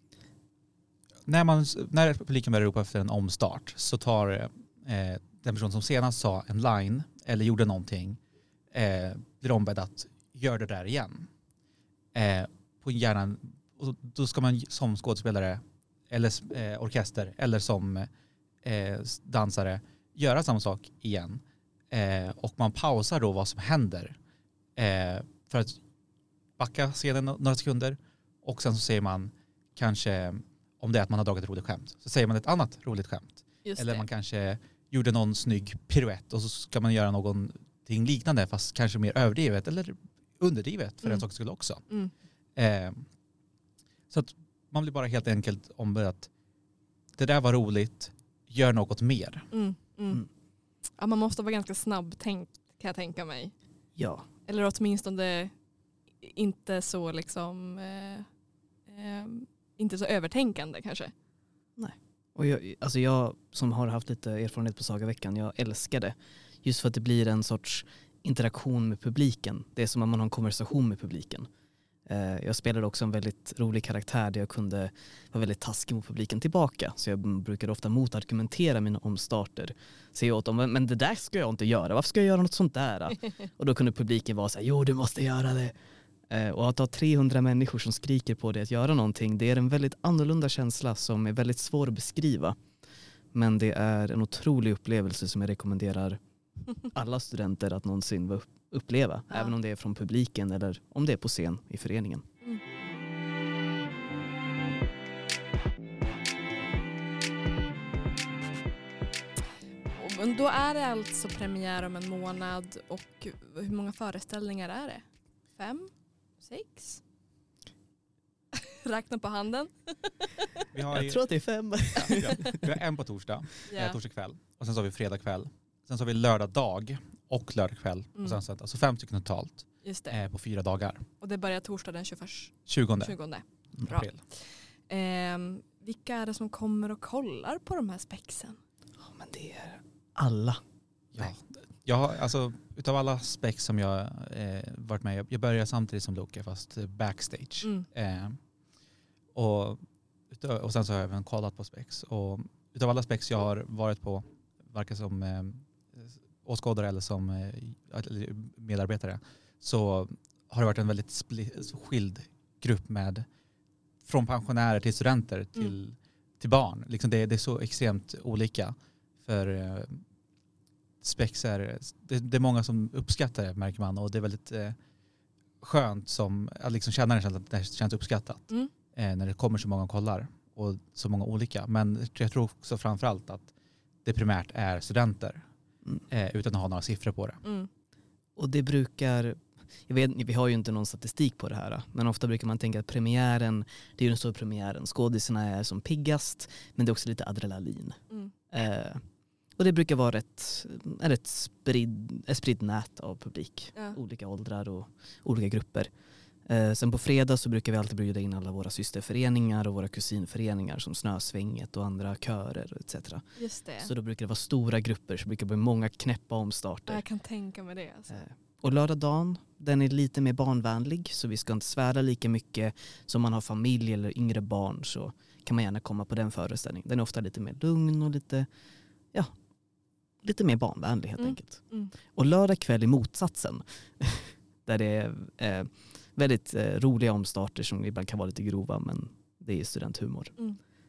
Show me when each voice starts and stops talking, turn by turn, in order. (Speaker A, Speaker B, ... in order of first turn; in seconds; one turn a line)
Speaker A: 1.2-8.2
Speaker A: 8.7-11.3
Speaker A: 12.1-18.1
Speaker A: 18.6-24.1
Speaker A: 24.8-25.8
Speaker A: 26.6-41.8
Speaker B: 33.6-34.0
Speaker A: 42.6-43.1
Speaker A: 44.1-46.3
Speaker A: 47.2-49.5
Speaker B: 49.5-50.2
Speaker B: 51.0-53.5
Speaker C: 54.0-54.2
Speaker B: 54.5-55.5
Speaker B: 56.2-58.3
Speaker B: 58.9-61.1
Speaker C: 61.8-71.5
Speaker C: 72.1-85.8
Speaker C: 86.3-92.6
Speaker C: 93.3-96.2
Speaker C: 96.9-102.3
Speaker B: 109.9-115.0
Speaker B: 115.5-117.0
Speaker B: 118.5-120.3
Speaker A: 120.7-121.3
Speaker C: 120.9-122.7
Speaker A: 121.9-131.1
Speaker B: 123.7-124.0
Speaker B: 129.8-130.2
Speaker B: 131.2-138.6
Speaker A: 132.7-133.2
Speaker A: 133.8-134.2
Speaker C: 139.0-140.6
Speaker A: 141.1-148.4
Speaker A: 149.3-163.3
Speaker A: 164.1-170.0
Speaker A: 171.0-174.8
Speaker A: 175.6-183.5
Speaker A: 184.1-185.4
Speaker A: 186.1-187.4
Speaker B: 187.4-187.7
Speaker C: 188.4-199.0
Speaker C: 199.6-205.9
Speaker C: 206.4-213.3
Speaker B: 213.4-213.9
Speaker C: 213.8-217.0
Speaker B: 216.9-218.2
Speaker C: 218.1-228.5
Speaker C: 230.2-231.6
Speaker B: 231.2-231.9
Speaker C: 232.1-240.3